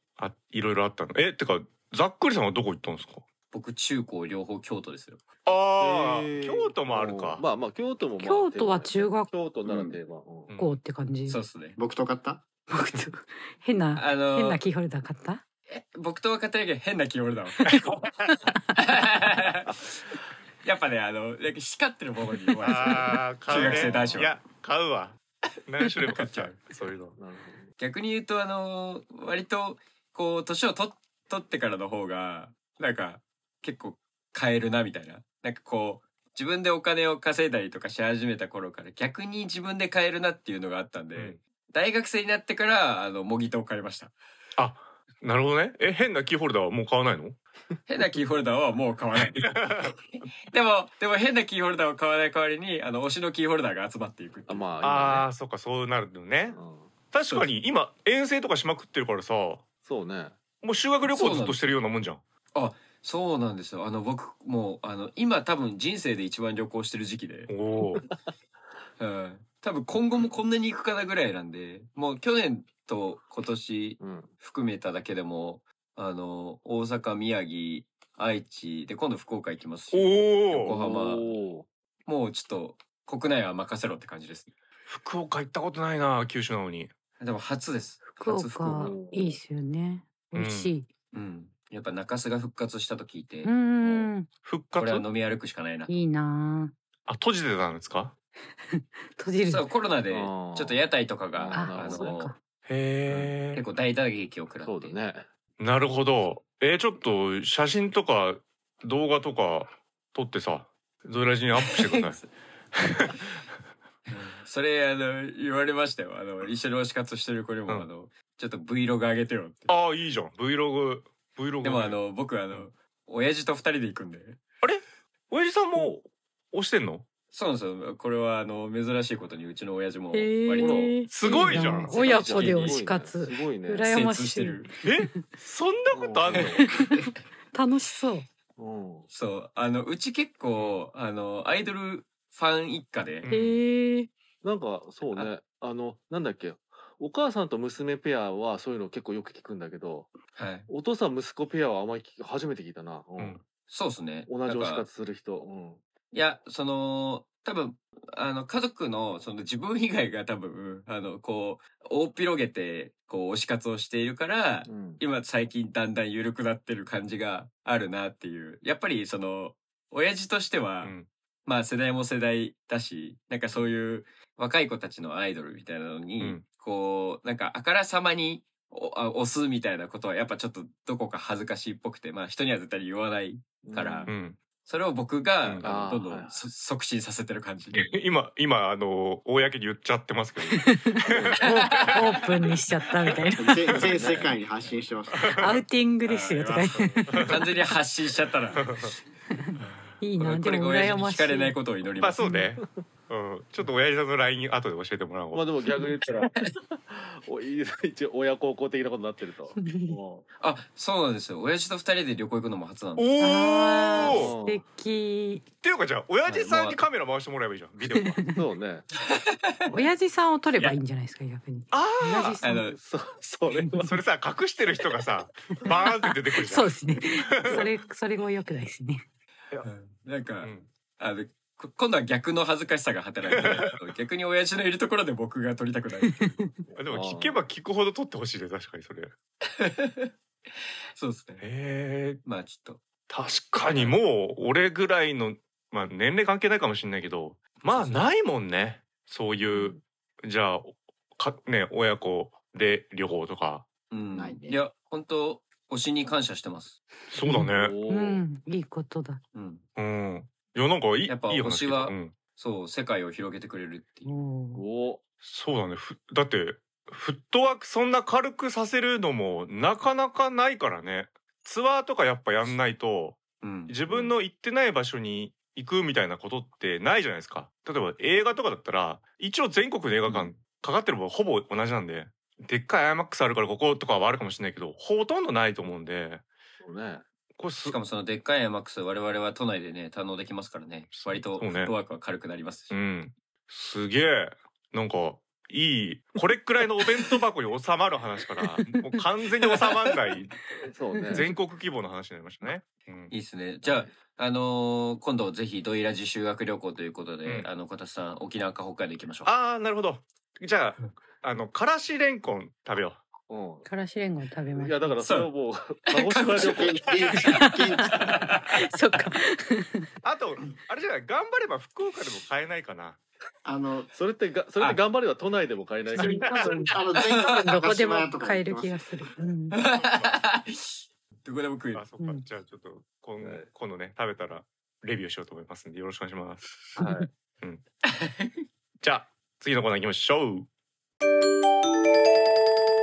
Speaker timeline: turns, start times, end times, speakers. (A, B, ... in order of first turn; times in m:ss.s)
0:00.2-0:03.2 A
0:03.5-0:05.3 B
0:05.5-0:07.5 A
0:05.8-0:10.5 C
0:08.2-0:09.3 D
0:09.7-0:10.0 E
0:10.5-0:10.8 A
0:10.6-0:11.4 D
0:11.3-0:11.8 B
0:11.8-0:12.5 E
0:12.7-0:15.4 D
0:14.0-0:14.6 B
0:15.7-0:17.8 B
0:17.6-0:18.6 D
0:18.7-0:20.0 B
0:20.6-0:24.4 B
0:22.6-0:27.2 A
0:23.5-0:24.3 C
0:26.0-0:26.6 B
0:27.2-0:27.7 C
0:27.8-0:44.2 B
0:44.6-0:47.4 A
0:47.9-0:49.4 B
0:49.2-0:50.0 A
0:50.5-0:54.7 B
0:54.5-0:55.3 C
0:54.8-0:56.6 A
0:56.5-0:56.9 C
0:57.1-0:59.7 A
0:59.8-1:00.4 C
1:00.6-1:02.2 A
1:01.0-1:01.7 B
1:02.6-1:07.6 B
1:07.5-1:08.0 A
1:09.0-1:21.4 B
1:14.0-1:14.3 C
1:19.9-1:20.7 A
1:20.7-1:21.7 C
1:22.1-1:24.5 B
1:24.9-1:26.9 A
1:27.2-1:29.0 B
1:28.1-1:30.9 D
1:28.8-1:29.4 C
1:30.3-1:30.7 A
1:31.1-1:34.1 B
1:33.4-1:34.3 D
1:34.4-1:35.0 A
1:34.8-1:36.0 B
1:35.9-1:36.7 D
1:37.1-1:38.1 A
1:38.7-1:39.7 D
1:39.5-1:42.3 B
1:40.1-1:42.2 C
1:41.5-1:42.4 D
1:42.7-1:43.6 A
1:43.1-1:43.4 C
1:43.5-1:45.0 B
1:44.6-1:45.3 C
1:45.6-1:52.2 A
1:51.6-1:52.3 B
1:52.8-1:53.2 A
1:54.1-1:59.7 B
1:59.7-2:02.0 A
2:01.6-2:04.4 B
2:04.6-2:07.0 A
2:07.3-2:11.0 B
2:10.1-2:15.2 D
2:10.6-2:14.0 C
2:11.1-2:12.0 A
2:11.9-2:12.9 B
2:13.8-2:14.7 B
2:14.8-2:16.7 A
2:15.9-2:16.7 C
2:17.5-2:18.3 D
2:18.6-2:19.1 C
2:19.1-2:23.3 B
2:23.2-2:23.6 A
2:23.3-2:24.1 D
2:24.4-2:30.2 C
2:30.4-2:30.7 B
2:30.7-2:33.4 C
2:33.7-2:34.9 B
2:34.3-2:35.8 C
2:36.1-2:50.9 B
2:44.7-2:45.0 C
2:50.8-2:51.1 A
2:51.5-3:04.1 B
3:03.6-3:04.1 C
3:04.1-3:04.4 A
3:04.6-3:07.8 B
3:05.6-3:06.4 C
3:07.7-3:12.0 A
3:10.5-3:13.6 D
3:11.1-3:11.5 C
3:11.4-3:12.0 B
3:13.4-3:15.6 E
3:13.8-3:14.3 C
3:15.1-3:15.6 A
3:15.4-3:17.4 D
3:16.0-3:18.8 B
3:16.8-3:17.4 A
3:18.6-3:18.9 A
3:19.3-3:21.6 D
3:20.2-3:22.2 B
3:22.0-3:25.5 A
3:22.2-3:22.5 D
3:22.6-3:22.9 C
3:25.3-3:30.3 C
3:29.6-3:30.0 D
3:30.4-3:33.2 B
3:33.0-3:34.3 A
3:33.2-3:35.4 D
3:34.0-3:34.6 C
3:35.6-3:38.2 A
3:36.3-3:36.8 B
3:37.9-3:38.4 D
3:38.2-3:38.9 C
3:39.0-3:39.7 B
3:39.7-3:42.8 D
3:41.7-3:42.4 A
3:42.4-3:42.8 B
3:42.8-3:44.0 C
3:43.5-3:43.8 D
3:43.8-3:47.7 A
3:45.6-3:49.0 D
3:49.6-3:56.5 B
3:50.4-3:50.7 A
3:53.3-3:53.7 A
3:56.0-3:56.5 D
3:56.7-3:57.4 C
3:56.8-3:59.1 A
3:59.5-4:00.1 B
4:01.0-4:01.4 B
4:01.4-4:02.2 A
4:02.2-4:02.8 B
4:03.1-4:13.7 A
4:03.7-4:04.0 B
4:07.7-4:08.1 B
4:09.5-4:09.8 C
4:13.9-4:16.8 B
4:14.1-4:14.6 E
4:17.1-4:17.8 A
4:17.2-4:19.2 D
4:17.5-4:18.2 C
4:19.3-4:19.6 B
4:19.8-4:22.2 A
4:21.1-4:24.1 B
4:24.0-4:24.6 D
4:24.6-4:25.0 C
4:25.2-4:46.2 A
4:33.4-4:33.8 B
4:33.9-4:34.2 C
4:46.6-4:47.0 C
4:47.4-4:47.8 A
4:47.6-4:52.8 B
4:50.9-4:51.7 A
4:52.7-5:00.3 A
4:58.4-4:59.0 D
5:00.2-5:01.3 D
5:00.6-5:01.3 C
5:01.1-5:03.1 A
5:03.1-5:09.3 B
5:03.6-5:04.0 C
5:09.2-5:13.0 A
5:13.3-5:13.7 C
5:13.7-5:15.0 D
5:14.5-5:16.9 C
5:15.0-5:15.3 B
5:15.9-5:17.3 B
5:16.4-5:18.1 E
5:17.2-5:19.9 D
5:17.9-5:18.7 B
5:20.0-5:23.0 A
5:23.4-5:23.9 E
5:23.9-5:26.2 C
5:26.0-5:29.0 E
5:26.0-5:29.6 D
5:26.2-5:26.6 A
5:27.0-5:27.5 B
5:29.5-5:31.8 B
5:29.8-5:30.2 A
5:31.7-5:36.5 A
5:33.2-5:33.5 C
5:36.8-5:37.1 D
5:36.8-5:37.1 C
5:37.9-5:38.4 B
5:38.8-5:40.5 A